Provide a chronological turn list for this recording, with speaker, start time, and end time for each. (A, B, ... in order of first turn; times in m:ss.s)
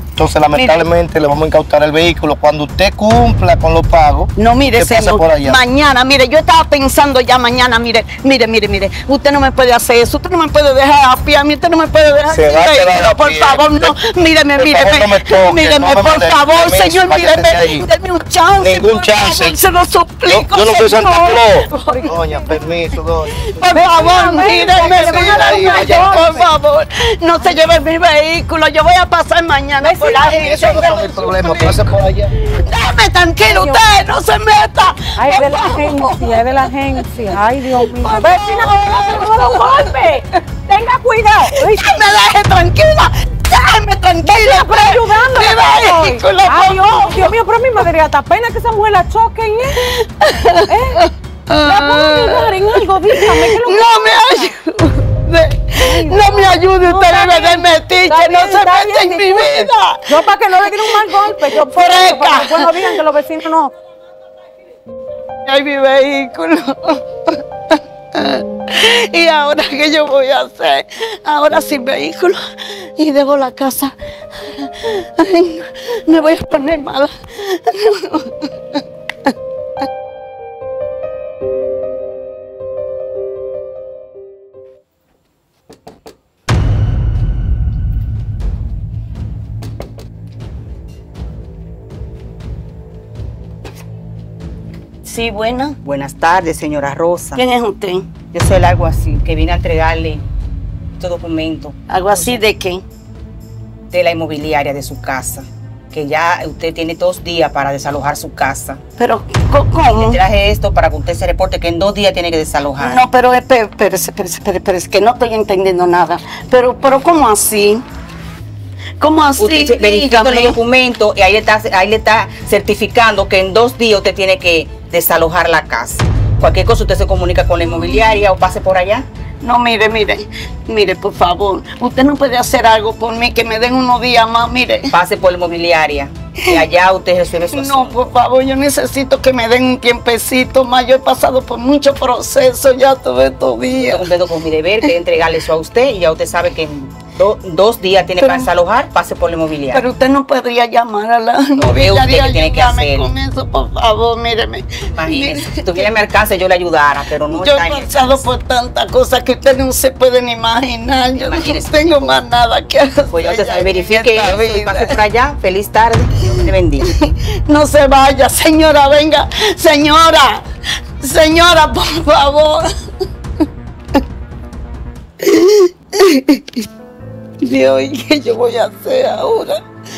0:00.2-0:05.6 A
0:00.5-0:00.9 B
0:04.4-0:40.2 B
0:12.3-0:14.0 A
0:14.6-0:17.9 A
0:18.6-0:19.6 A
0:20.3-0:23.4 A
0:21.9-0:22.7 C
0:23.7-0:26.5 C
0:24.7-0:26.2 A
0:29.8-0:31.8 C
0:30.3-0:32.3 A
0:33.4-0:33.8 C
0:35.2-0:41.9 C
0:41.5-0:47.9 B
0:44.2-0:50.0 C
0:49.7-1:03.0 B
0:50.6-0:51.0 C
0:51.6-0:54.5 C
0:55.8-1:03.7 C
1:05.4-1:07.4 B
1:08.2-1:19.3 B
1:35.0-1:35.8 B
1:35.8-1:37.4 D
1:37.4-1:38.1 B
1:38.3-1:40.2 D
1:41.0-1:42.4 D
1:41.9-1:42.8 B
1:43.9-1:48.8 D
1:49.0-1:50.2 B
1:49.9-1:53.0 D
1:52.8-1:57.8 B
1:59.0-2:00.6 B
1:59.4-2:09.1 D
2:07.7-2:08.2 B
2:09.4-2:15.0 B
2:14.9-2:18.0 D
2:17.5-2:24.1 B
2:23.8-2:29.8 D
2:28.2-2:28.5 B
2:29.7-2:35.9 B
2:31.6-2:33.1 D
2:34.9-2:38.3 D
2:37.3-2:45.0 B
2:41.1-2:42.1 D
2:43.1-2:46.9 D
2:46.2-2:50.4 B
2:51.0-2:52.7 B
2:55.2-2:56.6 B
2:57.4-2:59.6 B